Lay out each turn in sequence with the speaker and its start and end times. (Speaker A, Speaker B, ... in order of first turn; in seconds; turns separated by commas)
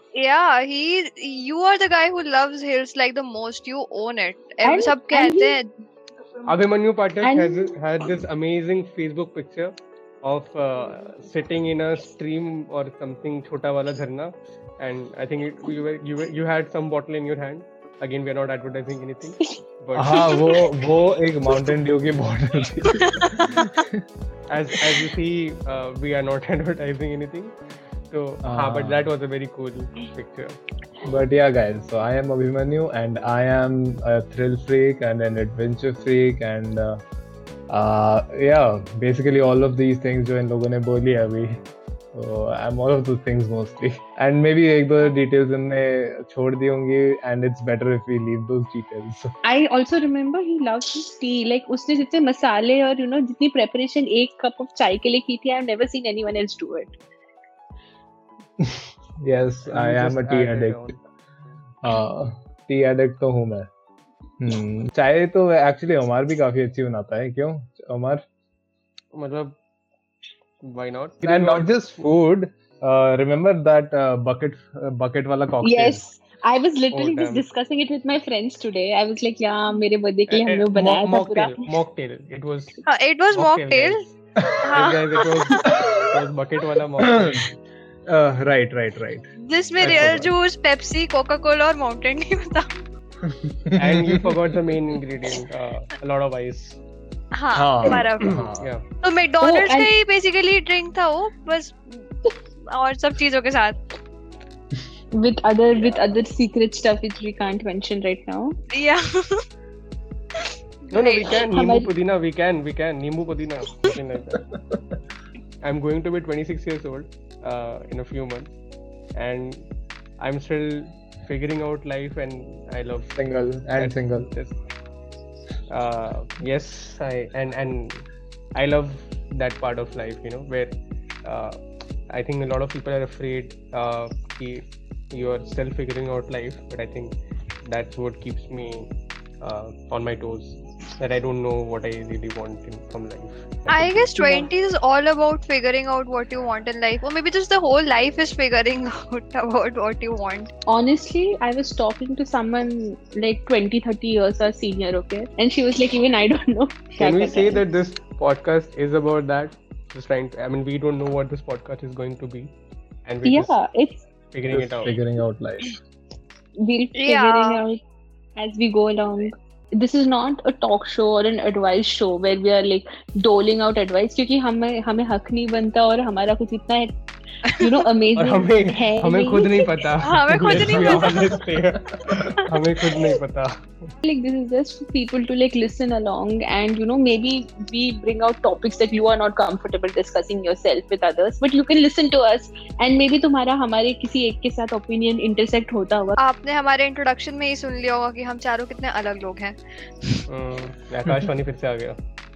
Speaker A: 0.1-5.7, Speaker B: 4.6-5.6, Speaker C: 6.4-20.3, Speaker B: 7.2-7.8, Speaker D: 19.9-24.0, Speaker B: 20.2-20.7, Speaker C: 24.5-27.5, Speaker C: 28.1-30.6, Speaker D: 28.4-29.1, Speaker D: 31.0-37.0, Speaker D: 37.7-41.6, Speaker D: 42.1-49.3, Speaker B: 49.4-57.0, Speaker D: 58.6-60.9, Speaker C: 59.6-61.0, Speaker D: 61.8-63.7, Speaker D: 64.4-68.2, Speaker C: 69.1-69.6, Speaker C: 70.6-71.8, Speaker D: 71.2-76.0, Speaker B: 75.6-81.6, Speaker C: 76.9-77.5, Speaker C: 80.3-82.8, Speaker A: 82.8-84.0, Speaker C: 83.3-84.0, Speaker D: 84.4-84.7, Speaker A: 84.6-85.0, Speaker C: 84.7-87.5, Speaker D: 85.6-86.0, Speaker D: 87.0-87.4, Speaker D: 88.1-89.2, Speaker A: 89.4-92.7, Speaker C: 89.8-90.3, Speaker D: 89.8-90.3, Speaker D: 93.2-94.5, Speaker C: 93.8-96.8, Speaker A: 97.3-98.4, Speaker D: 97.5-98.7, Speaker C: 98.2-98.8, Speaker A: 99.0-103.8, Speaker B: 99.4-99.9, Speaker B: 105.1-108.5, Speaker C: 105.7-106.2, Speaker A: 108.7-109.4, Speaker A: 110.9-111.3, Speaker C: 110.9-114.5, Speaker B: 111.5-111.9, Speaker C: 115.6-118.5, Speaker C: 119.2-119.7, Speaker C: 120.2-123.2, Speaker D: 123.2-124.3, Speaker C: 123.7-124.5, Speaker C: 125.7-137.1, Speaker C: 137.7-138.9, Speaker C: 139.4-144.2, Speaker A: 143.7-150.5, Speaker B: 144.1-144.5, Speaker B: 150.7-157.6, Speaker C: 157.0-162.5, Speaker C: 163.1-163.5, Speaker B: 163.2-164.0, Speaker C: 164.3-165.0, Speaker D: 164.5-165.8, Speaker B: 166.6-167.8, Speaker A: 166.9-167.6, Speaker B: 168.4-177.0, Speaker B: 177.5-179.8, Speaker C: 178.1-183.5, Speaker A: 180.0-181.2, Speaker B: 184.0-196.2, Speaker A: 196.2-200.2, Speaker C: 200.3-202.0